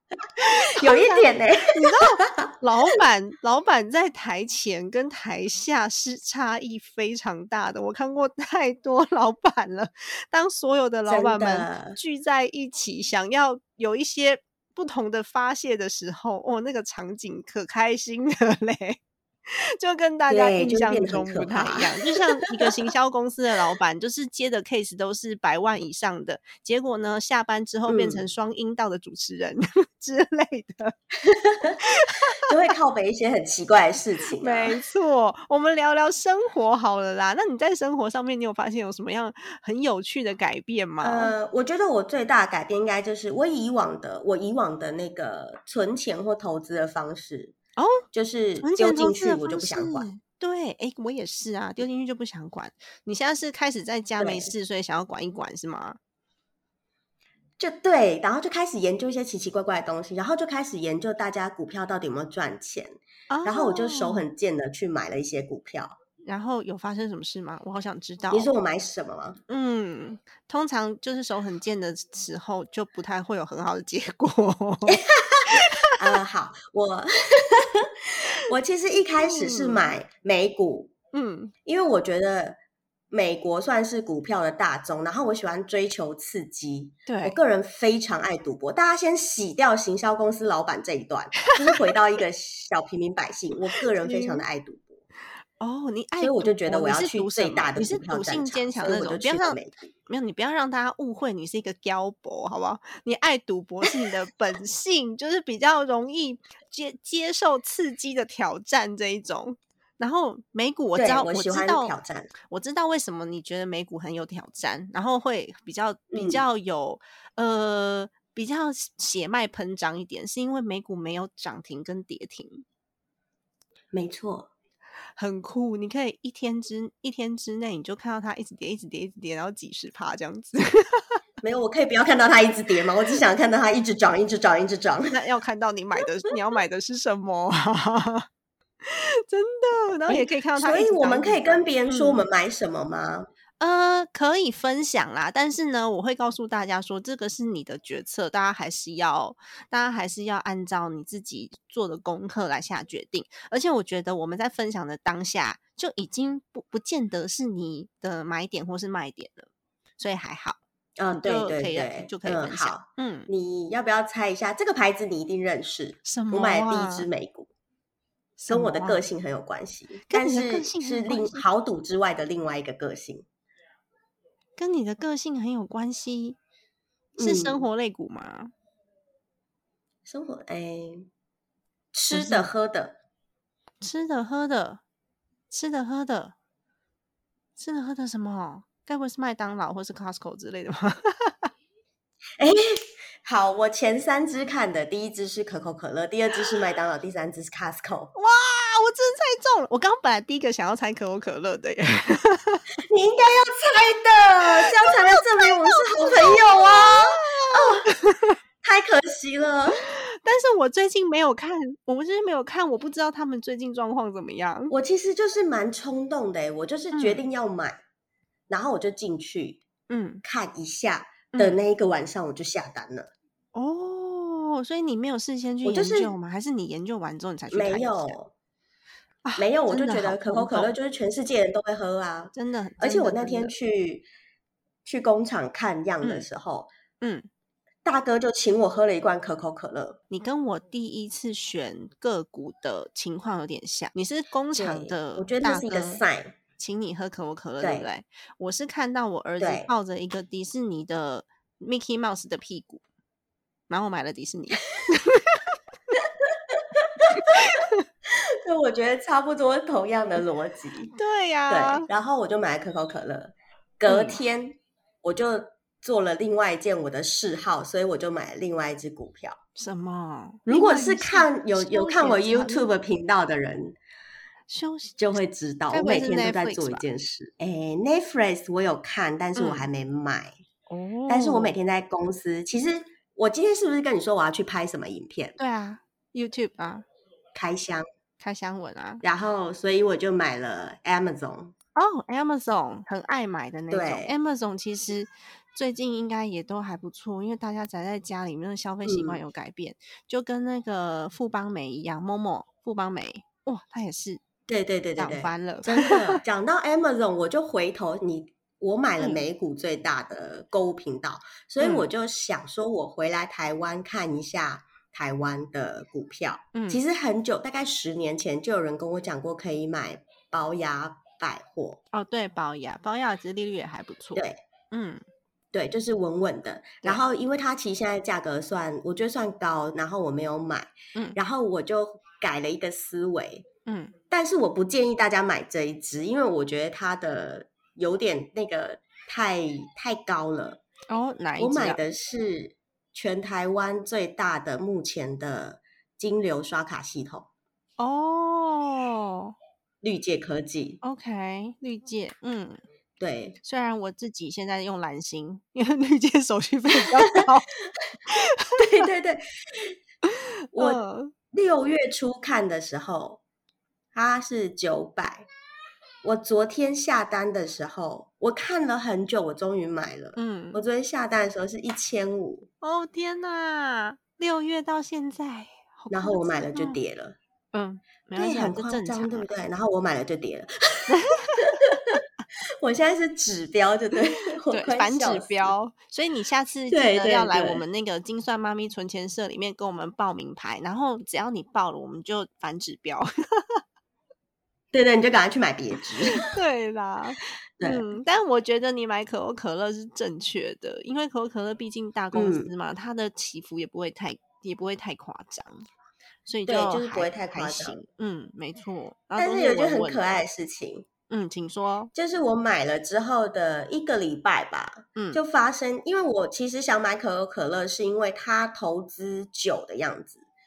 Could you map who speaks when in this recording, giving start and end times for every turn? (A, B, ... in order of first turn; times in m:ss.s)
0:00.4-0:30.9 A
0:00.8-0:02.4 B
0:11.1-0:12.0 B
0:20.3-0:22.7 B
0:27.9-0:28.2 B
0:31.2-0:31.8 B
0:31.7-0:32.4 A
0:32.4-0:34.8 B
0:34.4-0:41.4 A
0:41.0-0:47.6 B
0:47.8-0:48.0 A
0:48.1-0:50.1 B
0:48.6-0:56.0 A
0:54.2-0:54.5 B
0:57.6-1:05.9 B
1:03.3-1:04.3 A
1:06.2-1:08.5 A
1:08.3-1:09.4 B
1:09.5-1:15.9 A
1:14.9-1:17.9 B
1:18.5-1:20.9 B
1:19.2-1:19.9 A
1:21.1-1:21.5 A
1:21.7-1:22.6 B
1:23.1-1:35.0 B
1:27.1-1:27.4 A
1:34.0-1:34.4 A
1:35.6-1:51.9 A
1:36.2-1:39.9 B
1:51.0-1:52.3 B
1:52.5-2:02.6 A
1:56.1-1:56.4 B
2:03.9-2:04.5 B
2:05.2-2:11.2 A
2:11.4-2:15.2 B
2:15.1-2:18.3 A
2:18.8-2:22.2 A
2:20.1-2:23.3 B
2:23.6-2:40.6 A
2:41.0-2:47.5 B
2:41.1-2:43.3 A
2:46.0-2:47.1 A
2:48.4-2:49.1 A
2:48.5-2:53.3 B
2:50.1-2:51.4 A
2:54.6-2:56.4 A
2:57.2-2:57.6 B
2:57.2-2:58.5 A
3:00.1-3:01.1 B
3:01.9-3:03.0 B
3:02.1-3:02.5 A
3:03.8-3:04.8 A
3:05.5-3:06.4 A
3:07.6-3:11.5 A
3:12.4-3:18.1 B
3:18.2-3:22.7 A
3:22.8-3:27.9 B
3:24.6-3:28.4 A
3:28.6-3:29.8 B
3:29.8-3:34.7 A
3:34.7-3:37.8 B
3:36.9-3:37.2 A
3:38.5-3:39.6 B
3:39.9-3:40.2 A
3:40.2-3:43.1 B
3:41.3-3:41.6 A
3:43.5-3:48.2 A
3:45.6-3:46.1 B
3:47.5-3:48.3 B
3:49.2-3:50.7 A
3:49.4-3:54.1 B
3:52.3-3:53.5 A
3:54.8-3:56.7 B
3:57.0-3:57.3 A
3:57.8-4:00.0 B
4:00.1-4:06.0 A
4:04.6-4:06.4 B
4:06.6-4:12.8 A
4:07.6-4:07.9 B
4:09.4-4:09.7 B
4:13.7-4:15.5 A
4:15.9-4:17.6 B
4:17.2-4:17.8 A
4:18.1-4:20.9 B
4:21.0-4:21.9 A
4:21.5-4:29.4 B
4:23.9-4:24.2 A
4:29.6-4:32.7 A
4:30.5-4:33.8 B
4:34.5-4:35.0 A
4:35.0-4:40.3 B
4:35.7-4:36.8 A
4:39.4-4:39.7 A
4:40.7-4:41.6 A
4:41.1-4:45.4 B
4:45.4-4:46.8 A
4:47.4-4:47.8 B
4:48.2-4:49.0 A
4:49.0-4:51.5 B
4:51.8-5:04.2 A
4:53.7-4:54.1 B
4:58.8-4:59.2 B
5:04.5-5:21.8 B
5:05.0-5:06.2 A
5:11.6-5:11.9 A
5:16.5-5:16.8 A
5:21.9-5:25.0 A
5:24.2-5:24.4 B
5:25.5-5:33.4 B
5:33.7-5:33.9 A
5:34.1-5:40.6 B
5:40.9-5:41.8 A
5:41.4-5:47.3 B
5:47.8-5:49.4 A
5:49.8-5:50.8 B
5:50.8-5:52.6 A
5:53.0-5:53.4 B
5:53.4-5:57.5 A
5:56.8-5:57.2 B
5:58.1-5:58.6 A
5:58.6-5:59.7 B
6:00.1-6:01.1 A
6:00.5-6:00.8 B
6:01.3-6:03.2 B
6:03.9-6:05.3 B
6:06.0-6:12.5 B
6:10.2-6:10.6 A
6:12.6-6:16.8 A
6:15.9-6:17.2 B
6:17.5-6:19.3 A
6:18.2-6:22.0 B
6:20.9-6:21.6 A
6:22.6-6:25.5 B
6:24.5-6:33.6 A
6:26.7-6:27.6 B
6:34.7-6:36.3 B
6:36.1-6:45.7 A
6:37.6-6:37.8 B
6:42.1-6:42.5 B
6:46.3-6:50.0 A
6:46.5-6:47.8 B
6:49.2-6:50.9 B
6:51.1-6:51.9 A
6:51.9-7:00.2 B
6:55.0-6:55.2 A